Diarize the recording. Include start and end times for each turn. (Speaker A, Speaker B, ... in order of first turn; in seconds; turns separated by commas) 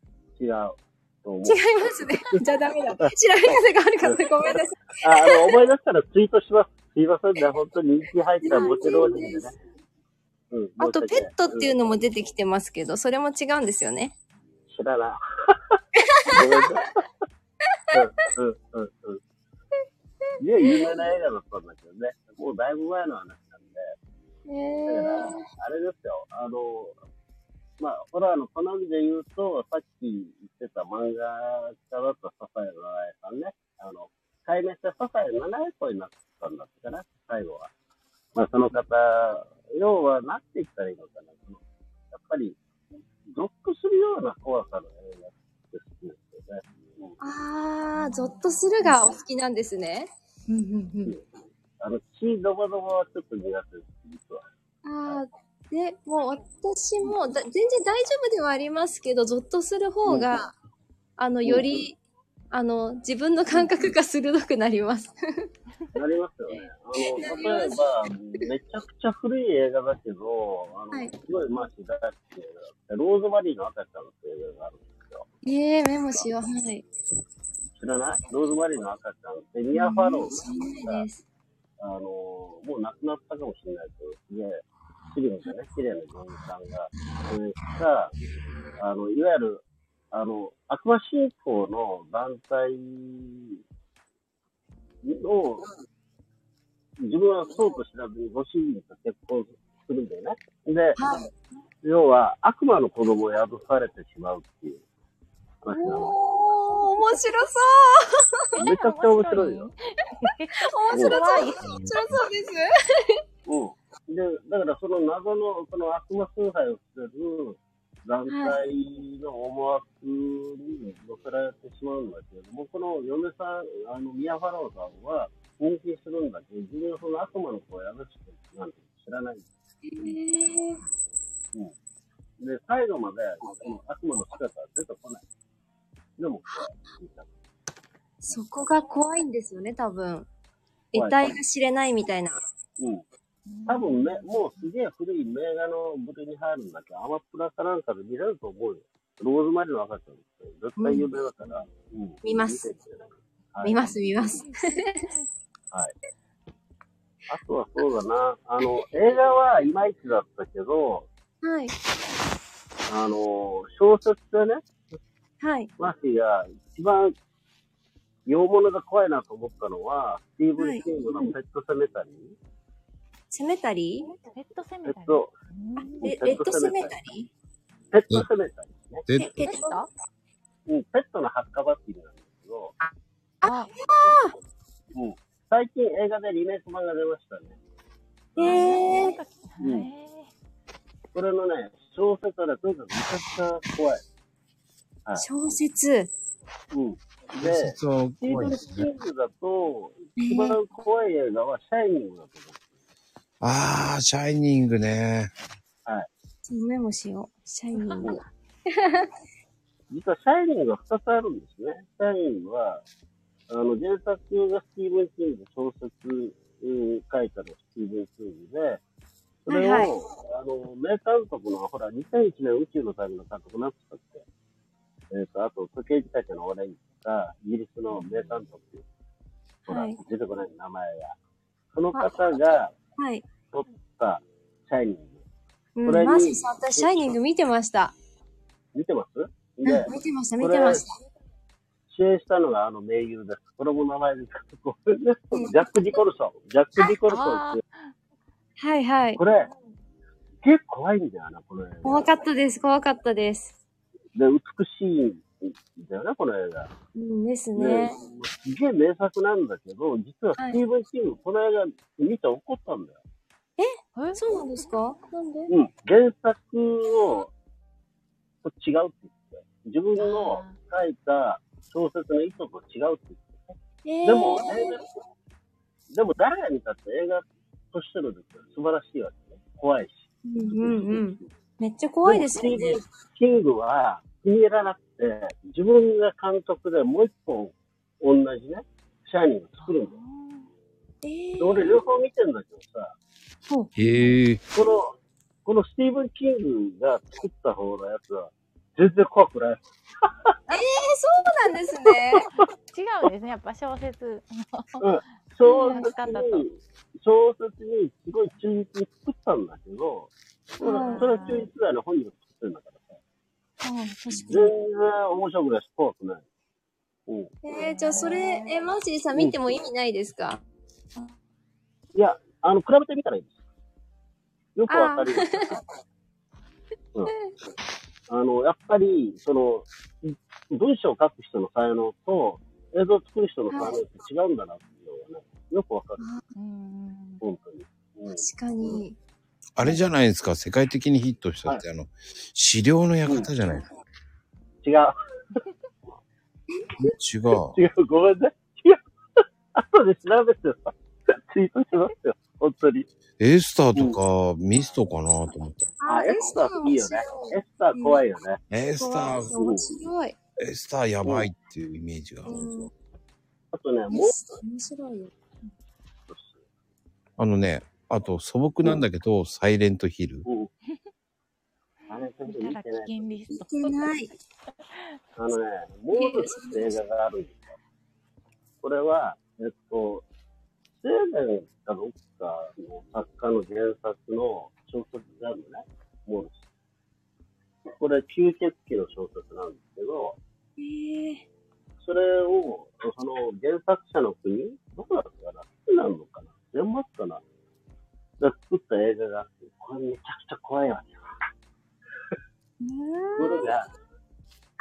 Speaker A: 0.4-1.6, Speaker B: 1.4-5.6, Speaker A: 5.0-9.6, Speaker B: 8.4-9.6, Speaker A: 10.5-12.0, Speaker B: 10.8-14.2, Speaker A: 14.7-17.1, Speaker B: 16.0-16.9, Speaker B: 17.7-18.3, Speaker A: 17.9-19.2, Speaker A: 20.4-23.9, Speaker B: 20.6-21.0, Speaker B: 24.5-25.5, Speaker A: 24.9-26.9, Speaker A: 27.8-37.7, Speaker A: 38.4-41.6, Speaker A: 42.1-42.6, Speaker A: 43.3-47.2, Speaker B: 47.2-51.2, Speaker C: 48.0-48.9, Speaker A: 51.8-54.4, Speaker B: 54.8-60.5, Speaker A: 60.1-60.3, Speaker B: 61.2-62.0, Speaker B: 62.5-65.5, Speaker C: 63.5-63.9, Speaker A: 65.9-75.3, Speaker B: 67.0-67.9, Speaker B: 75.4-76.8, Speaker A: 77.8-81.1, Speaker B: 79.7-81.2, Speaker A: 81.8-88.1, Speaker A: 88.8-93.6, Speaker A: 95.0-95.7, Speaker A: 97.0-101.0, Speaker B: 101.0-101.3, Speaker A: 101.8-104.8, Speaker A: 105.6-106.2, Speaker B: 105.7-108.6, Speaker A: 108.6-109.7, Speaker C: 108.7-111.6, Speaker B: 110.6-113.2, Speaker A: 110.9-111.2, Speaker D: 111.6-112.2, Speaker A: 113.5-129.4, Speaker B: 118.3-118.6, Speaker B: 129.8-130.8, Speaker A: 132.4-135.2, Speaker A: 136.2-137.3, Speaker B: 138.2-140.3, Speaker B: 140.9-142.4, Speaker A: 140.9-141.3, Speaker C: 143.5-144.7, Speaker A: 143.7-153.8, Speaker B: 150.8-151.1, Speaker B: 152.2-152.7, Speaker B: 153.6-155.1, Speaker C: 154.1-155.2, Speaker A: 157.3-161.1, Speaker B: 161.4-161.7, Speaker A: 162.9-164.8, Speaker B: 165.4-165.7, Speaker A: 165.8-167.1, Speaker A: 168.3-172.3, Speaker B: 170.6-170.8, Speaker B: 173.3-174.1, Speaker C: 174.2-176.3, Speaker A: 174.8-175.3, Speaker B: 175.8-177.3, Speaker A: 176.0-177.0, Speaker A: 177.9-179.1, Speaker D: 179.1-179.5, Speaker B: 179.2-179.8, Speaker C: 179.4-179.9, Speaker A: 180.7-182.7, Speaker B: 183.4-184.4, Speaker C: 183.4-183.7, Speaker A: 184.9-187.6, Speaker A: 188.3-188.8, Speaker C: 188.4-190.3, Speaker B: 188.4-189.2, Speaker A: 189.6-189.9, Speaker A: 191.1-194.0, Speaker B: 195.2-196.1, Speaker A: 196.7-202.6, Speaker D: 197.4-198.9, Speaker B: 200.2-200.6, Speaker D: 203.4-205.3, Speaker B: 206.5-209.1, Speaker C: 207.8-208.2, Speaker A: 209.9-212.8, Speaker A: 213.5-218.8, Speaker A: 219.5-224.2, Speaker B: 219.5-219.9, Speaker A: 225.1-228.8, Speaker B: 229.7-230.0, Speaker A: 229.7-231.2, Speaker A: 231.7-232.7, Speaker B: 231.9-233.3, Speaker A: 233.5-235.2, Speaker B: 235.8-237.9, Speaker A: 235.9-237.2, Speaker A: 238.8-240.8, Speaker B: 239.7-240.9, Speaker A: 241.9-247.6, Speaker B: 245.3-246.0, Speaker C: 247.0-247.7, Speaker B: 248.6-249.2, Speaker A: 249.2-249.5, Speaker A: 250.4-252.2, Speaker B: 251.8-253.5, Speaker A: 254.2-256.7, Speaker B: 256.9-258.0, Speaker A: 257.6-263.0, Speaker B: 263.6-265.5, Speaker C: 263.9-264.7, Speaker A: 265.5-267.3, Speaker A: 268.4-274.8, Speaker C: 270.0-270.6, Speaker B: 273.9-274.8, Speaker A: 275.9-281.3, Speaker B: 280.2-282.9, Speaker A: 282.1-290.0, Speaker C: 289.6-290.5, Speaker B: 291.0-291.7, Speaker A: 291.4-293.0, Speaker B: 293.5-293.7, Speaker D: 293.8-294.4, Speaker C: 293.9-294.2, Speaker A: 294.5-300.3, Speaker B: 300.5-302.3, Speaker C: 302.7-304.9, Speaker A: 304.8-313.0, Speaker B: 305.4-305.9, Speaker C: 305.5-306.5, Speaker B: 310.6-311.3, Speaker C: 310.6-311.5, Speaker B: 313.6-314.5, Speaker A: 314.1-316.2, Speaker A: 317.1-317.3, Speaker B: 317.4-320.4, Speaker C: 317.6-318.6, Speaker A: 321.9-323.4, Speaker A: 324.6-325.6, Speaker B: 324.7-325.6, Speaker A: 328.1-336.1, Speaker B: 333.5-333.8, Speaker B: 336.0-336.2, Speaker C: 336.4-337.2, Speaker A: 337.2-338.8, Speaker B: 338.1-339.0, Speaker D: 339.6-343.7, Speaker A: 344.6-344.9, Speaker D: 346.8-347.6, Speaker A: 347.5-348.8, Speaker A: 349.6-352.9, Speaker D: 353.2-355.7, Speaker B: 355.8-358.1, Speaker A: 355.9-358.4, Speaker D: 358.5-359.4, Speaker B: 358.8-360.2, Speaker A: 359.4-359.7, Speaker D: 360.4-362.7, Speaker A: 361.0-361.3, Speaker B: 362.2-362.7, Speaker A: 363.5-364.2, Speaker B: 363.9-365.1, Speaker A: 366.1-366.4, Speaker D: 367.2-370.3, Speaker A: 370.3-370.5, Speaker C: 371.9-373.9, Speaker A: 371.9-373.1, Speaker B: 373.3-374.1, Speaker A: 375.2-377.6, Speaker B: 375.9-376.8, Speaker A: 378.6-380.1, Speaker A: 380.8-386.4, Speaker A: 387.8-390.2, Speaker B: 390.6-391.2, Speaker A: 391.8-397.2, Speaker A: 398.2-401.0, Speaker B: 402.6-403.6, Speaker A: 403.2-403.7